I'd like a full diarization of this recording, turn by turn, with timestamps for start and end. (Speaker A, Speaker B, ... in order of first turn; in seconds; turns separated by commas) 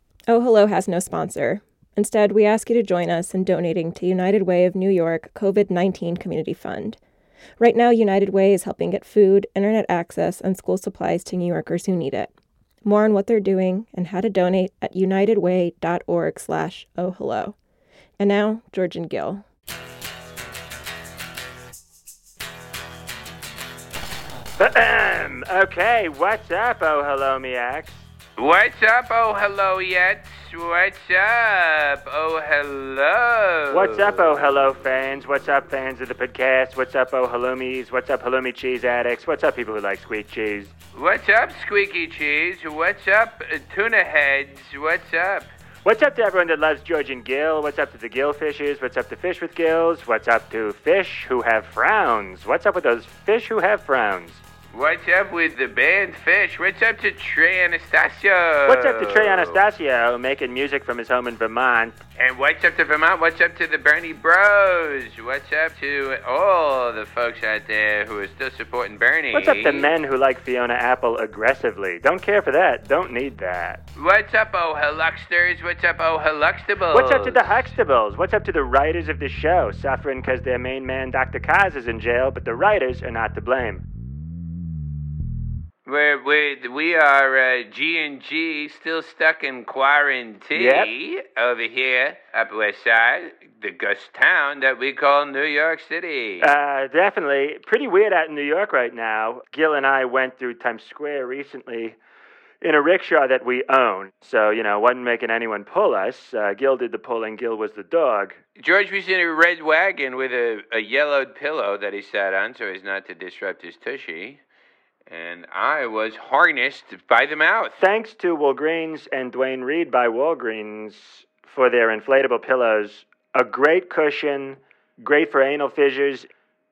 Speaker A: 0.3-7.0, Speaker A: 7.6-12.3, Speaker A: 12.8-17.5, Speaker A: 18.2-19.4, Speaker B: 24.6-27.9, Speaker C: 28.4-34.3, Speaker B: 33.7-40.7, Speaker C: 40.9-45.5, Speaker B: 45.8-54.4, Speaker C: 54.7-59.6, Speaker B: 58.7-62.0, Speaker C: 62.2-69.9, Speaker B: 69.3-73.8, Speaker C: 74.0-77.7, Speaker B: 76.9-83.8, Speaker C: 85.8-96.5, Speaker B: 90.5-90.9, Speaker B: 96.4-102.0, Speaker B: 102.6-108.4, Speaker C: 108.6-114.4, Speaker C: 115.1-117.8, Speaker B: 117.8-126.3